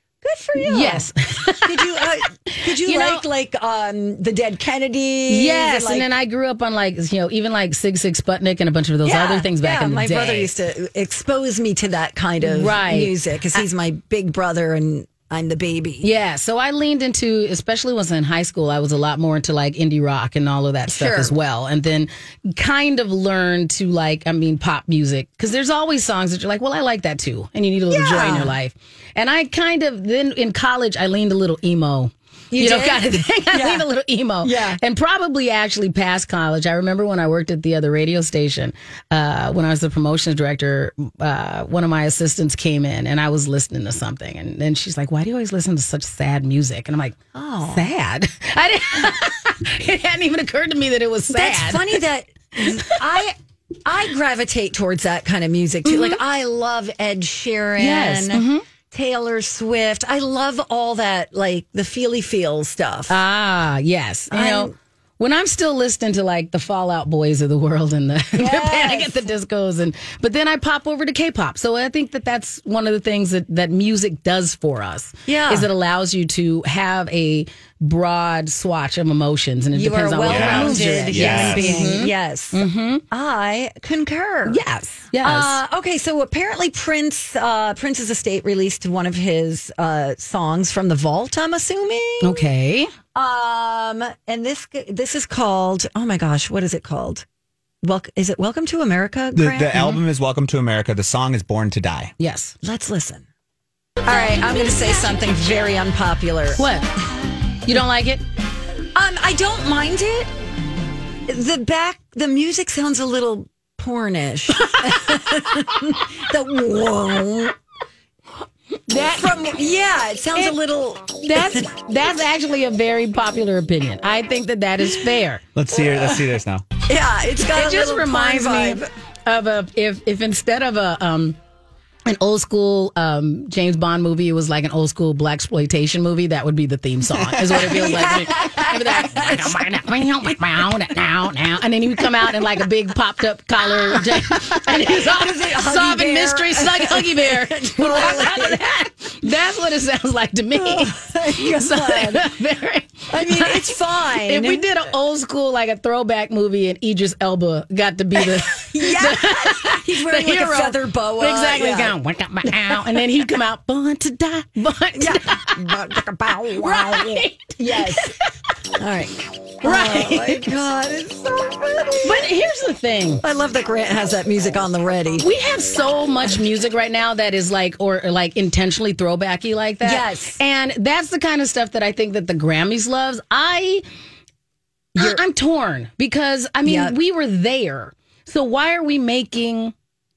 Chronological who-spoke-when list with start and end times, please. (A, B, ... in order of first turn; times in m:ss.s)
0:00.2-0:01.1 A
0:00.6-0:03.2 B
0:01.6-0:06.1 A
0:05.3-0:10.5 B
0:09.0-0:16.1 A
0:12.4-0:13.6 B
0:16.0-0:52.0 B
0:20.9-0:21.3 A
0:27.9-0:28.5 A
0:32.5-0:33.8 A
0:34.4-0:34.8 A
0:47.3-0:47.8 A
0:51.3-1:03.2 A
0:55.8-0:56.2 B
0:57.8-0:58.6 B
1:03.1-1:23.0 B
1:04.3-1:04.7 A
1:08.4-1:09.2 A
1:15.3-1:15.7 A
1:19.7-1:24.6 A
1:20.2-1:22.0 C
1:24.5-1:25.6 B
1:25.2-1:32.5 A
1:32.2-1:32.9 B
1:33.1-1:37.2 A
1:37.8-1:39.9 A
1:39.3-1:42.1 C
1:42.2-1:42.6 B
1:42.6-1:43.2 A
1:44.0-1:46.6 A
1:46.6-1:46.9 B
1:47.6-1:48.2 B
1:48.9-1:50.3 A
1:51.3-1:57.5 A
1:58.9-1:59.3 B
1:58.9-2:01.7 A
2:01.2-2:05.4 B
2:05.5-2:06.6 C
2:05.7-2:06.2 A
2:06.8-2:08.9 A
2:07.5-2:11.4 B
2:12.1-2:45.7 B
2:17.4-2:19.6 A
2:23.9-2:28.7 A
2:30.6-2:32.2 A
2:33.1-2:34.6 A
2:38.2-2:41.9 A
2:42.4-2:42.8 A
2:45.0-2:48.1 A
2:46.6-2:48.3 B
2:48.8-2:52.3 A
2:49.6-2:50.5 B
2:52.0-2:53.2 B
2:53.2-2:55.3 A
2:55.2-3:03.8 B
2:59.8-3:00.4 A
3:05.0-3:09.7 B
3:06.6-3:06.9 A